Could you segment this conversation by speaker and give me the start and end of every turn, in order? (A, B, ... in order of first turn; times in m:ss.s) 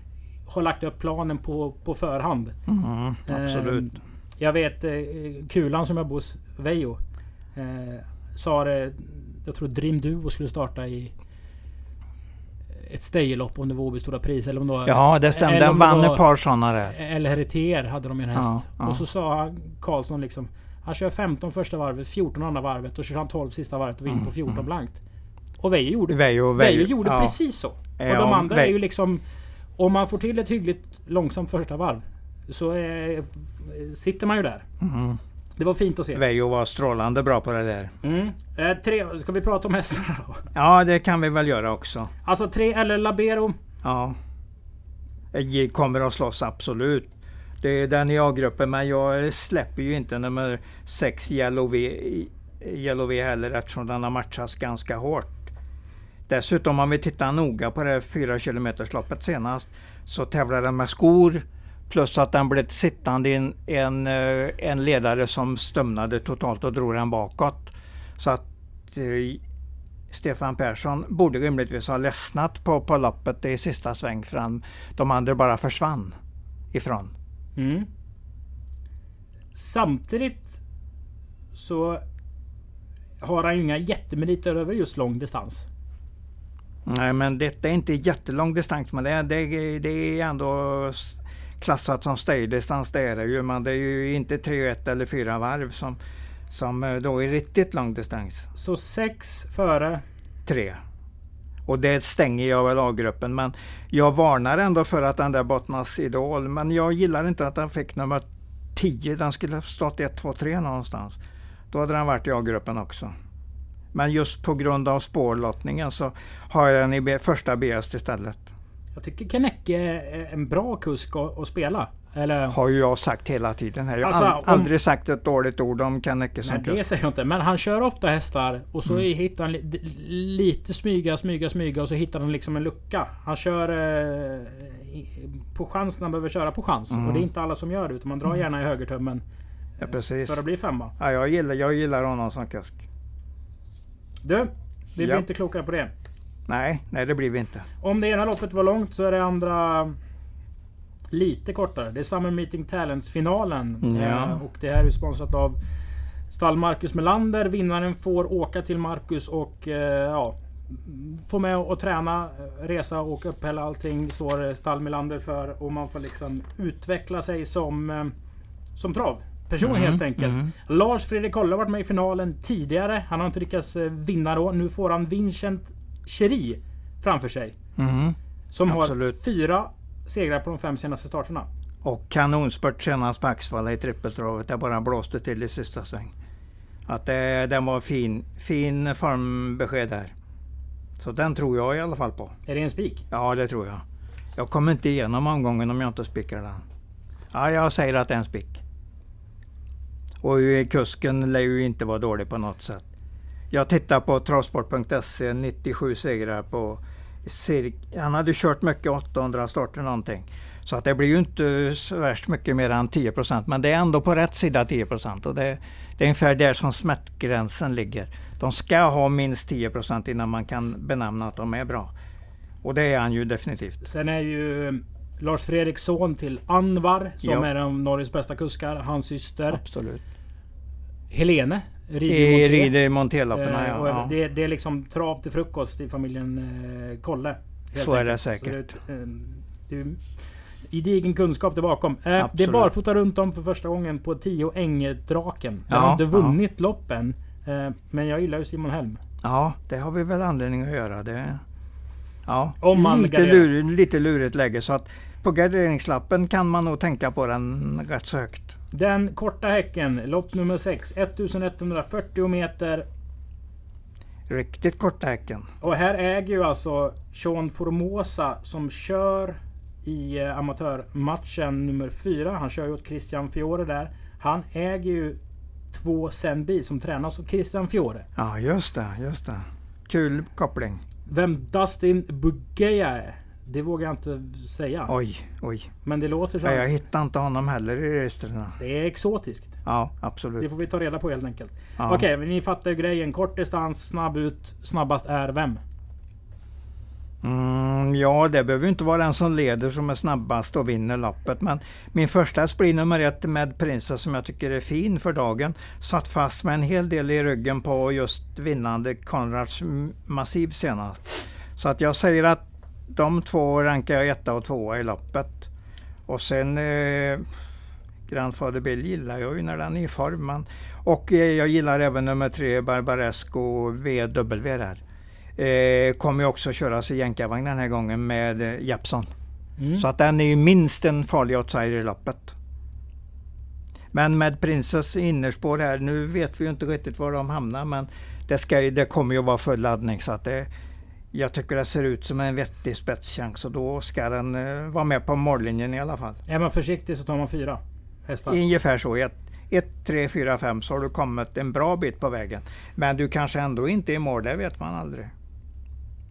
0:00.5-0:02.6 A
0:02.7-0:03.9 B
0:03.3-0:07.0 A
0:07.6-0:11.1 A
0:12.8-0:16.2 A
0:14.8-0:17.0 B
0:16.9-0:25.0 A
0:18.4-0:19.0 B
0:24.1-0:24.6 B
0:25.6-0:29.2 A
0:26.1-0:27.4 B
0:28.0-0:28.8 B
0:29.8-0:34.6 A
0:34.8-0:35.2 B
0:35.6-0:36.2 A
0:36.2-0:37.9 B
0:38.0-0:40.5 A
0:40.5-0:42.1 B
0:42.2-0:43.6 A
0:43.8-0:44.2 B
0:45.3-0:55.5 B
0:56.3-1:09.4 B
1:10.1-1:16.2 B
1:16.7-1:17.1 B
1:17.6-1:17.9 A
1:19.6-1:20.6 A
1:21.6-1:22.0 A
1:23.2-1:25.7 A
1:26.9-1:36.0 B
1:36.5-1:38.5 B
1:38.6-1:40.0 A
1:40.5-1:40.8 B
1:41.7-1:51.2 B
1:51.7-1:53.1 B
1:53.9-1:58.5 B
1:59.0-2:02.6 A
2:02.5-2:06.8 B
2:04.0-2:04.7 A
2:06.4-2:19.2 A
2:16.9-2:17.3 B
2:19.8-2:20.4 B
2:20.2-2:20.9 A
2:21.0-2:22.8 B
2:24.2-2:25.9 A
2:25.0-2:25.2 B
2:26.5-2:27.7 B
2:27.8-2:30.0 A
2:31.1-2:35.6 A
2:33.8-2:34.4 B
2:36.3-2:48.1 A
2:48.8-2:57.6 A
2:49.6-2:50.5 B
2:57.8-2:59.2 B
2:58.5-3:01.5 A
3:01.8-3:06.1 B
3:06.9-3:10.1 B
3:11.0-3:12.3 B
3:12.5-3:13.1 A
3:13.1-3:13.8 B
3:14.4-3:16.6 B
3:17.3-3:18.6 B
3:20.2-3:22.9 B
3:23.5-3:41.9 B
3:42.6-3:43.8 B
3:43.8-3:49.6 A
3:49.5-3:50.0 B
3:51.1-3:52.7 A
3:52.1-3:54.1 B
3:53.3-4:00.2 A
3:57.8-3:58.7 B
4:00.7-4:09.0 A
4:02.2-4:02.7 B
4:05.7-4:06.4 B
4:09.2-4:11.4 B
4:12.3-4:18.6 B
4:12.6-4:13.5 A
4:18.7-4:22.9 A
4:24.3-4:25.5 B
4:25.6-4:35.2 A
4:35.7-4:38.1 A
4:38.2-4:40.8 B
4:41.1-4:44.9 A
4:44.9-4:45.7 B
4:45.8-4:46.6 A
4:46.4-4:48.6 B
4:48.6-4:49.6 A
4:49.6-4:50.5 B
4:50.4-4:55.6 A
4:51.8-4:52.0 B
4:57.2-5:15.5 B
5:16.1-5:17.2 B
5:18.1-5:24.8 B
5:25.4-5:29.1 B
5:29.6-5:29.8 A
5:29.8-5:32.4 B
5:33.9-5:40.5 B
5:41.1-5:46.2 B
5:46.3-5:48.4 A
5:48.3-5:55.1 B